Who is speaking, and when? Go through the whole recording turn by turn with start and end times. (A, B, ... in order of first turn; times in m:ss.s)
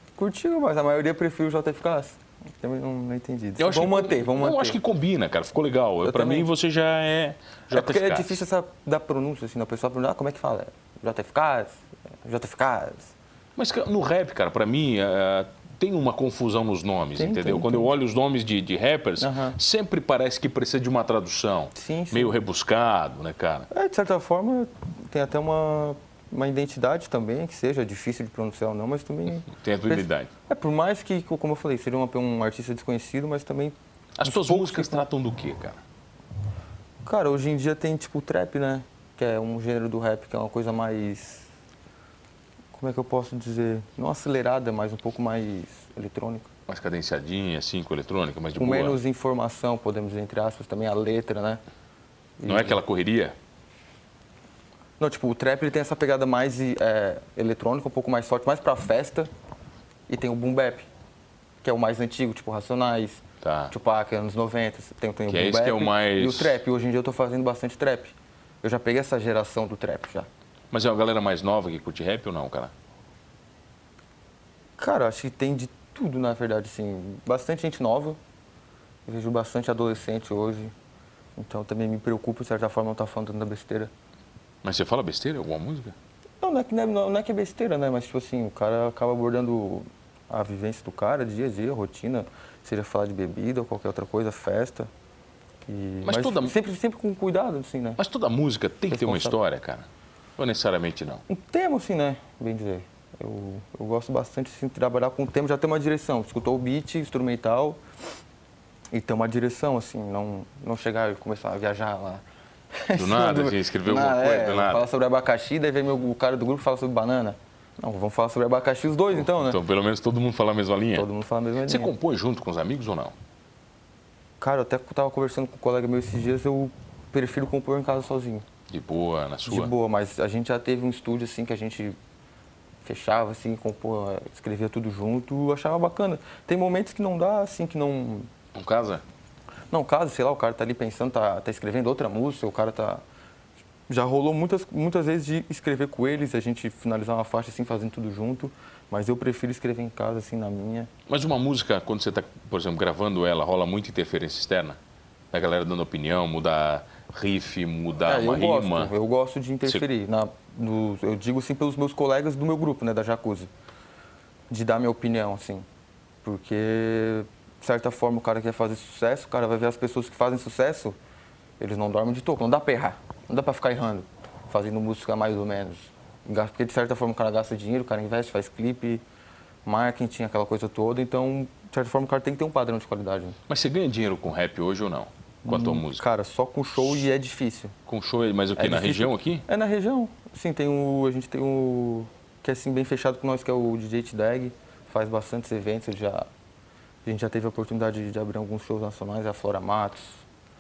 0:00.2-0:04.8 A
0:03.6-0:08.4 B
0:06.0-0:06.5 A
0:07.7-0:13.1 A
0:13.6-0:23.7 B
0:17.2-0:17.9 A
0:19.2-0:19.6 A
0:21.8-0:22.4 A
0:23.7-0:35.0 A
0:29.5-0:30.3 B
0:34.2-0:35.8 B
0:37.0-0:41.5 A
0:42.7-0:46.5 A
0:46.7-0:49.0 B
0:48.6-0:51.6 A
0:52.4-0:52.8 A
0:52.5-0:53.4 B
0:55.0-0:59.3 A
1:00.1-1:00.9 A
1:01.6-1:10.3 A
1:03.4-1:03.7 B
1:05.3-1:06.6 B
1:10.7-1:12.7 B
1:14.8-1:18.2 A
1:19.1-1:20.7 A
1:21.4-1:23.9 A
1:24.6-1:26.0 B
1:26.4-1:34.9 A
1:35.7-1:38.0 A
1:36.0-1:36.6 B
1:38.0-1:39.9 B
1:38.9-1:39.4 A
1:40.4-1:41.2 B
1:41.3-1:47.8 A
1:48.9-1:52.2 A
1:52.8-1:59.6 A
1:53.0-1:54.9 B
1:59.1-2:01.1 B
2:00.9-2:01.9 A
2:01.7-2:03.1 B
2:04.4-2:08.5 A
2:08.7-2:09.7 B
2:09.5-2:12.0 A
2:12.8-2:18.3 A
2:18.5-2:19.0 B
2:19.7-2:23.0 A
2:23.9-2:30.9 A
2:31.1-2:34.8 B
2:35.3-2:38.9 B
2:38.1-2:43.5 A
2:44.5-2:45.7 A
2:46.2-2:51.0 A
2:51.6-2:59.0 A
2:59.7-3:03.4 A
3:03.5-3:06.0 B
3:05.4-3:07.8 A
3:07.9-3:09.4 B
3:08.6-3:16.3 A
3:17.0-3:20.2 A